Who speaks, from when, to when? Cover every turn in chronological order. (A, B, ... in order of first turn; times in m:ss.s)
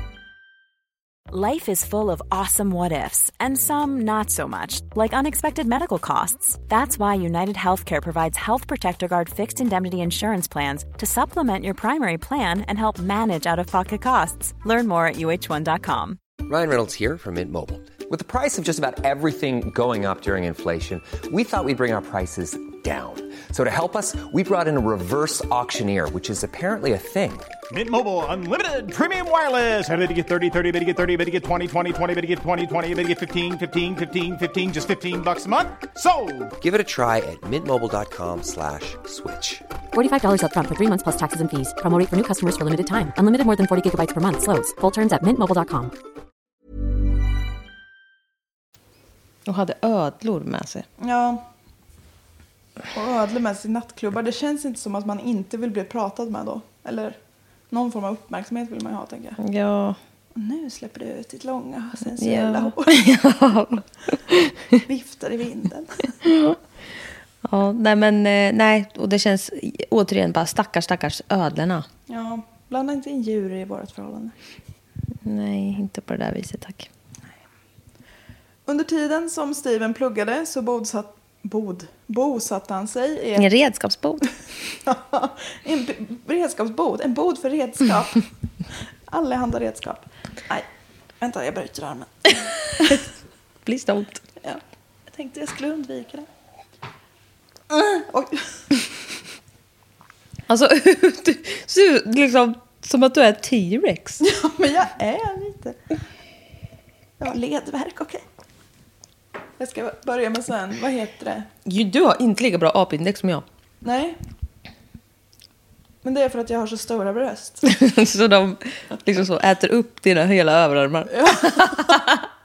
0:01.3-0:16.2 A
0:16.4-0:27.5 B
0:27.7-0:36.5 C
0:36.6-0:39.6 B
0:39.9-0:45.9 D
0:49.4-0:50.8 E
0:51.0-0:51.4 F
0:52.9-0:57.2 F
0:57.7-0:59.4 F
0:59.4-1:00.0 E
1:00.3-1:03.0 F
1:02.2-1:04.8 E
1:04.8-1:06.1 F
1:06.2-1:06.6 E
1:07.4-1:11.8 E
1:12.1-1:14.3 F
1:15.2-1:16.9 E
1:18.6-1:23.5 F
1:23.4-1:24.3 E
1:24.8-1:28.2 F
1:29.1-1:30.7 F
1:31.2-1:33.0 F
1:33.6-1:34.2 E
1:34.4-1:36.3 F
1:37.7-1:38.6 F
1:40.5-1:44.2 E
1:44.2-1:45.8 F
1:47.2-1:48.2 F
1:49.6-1:51.5 F
1:51.6-1:53.4 E
1:53.8-1:54.2 F
1:56.0-1:57.6 F
1:57.6-2:02.2 E
2:01.1-2:02.1 F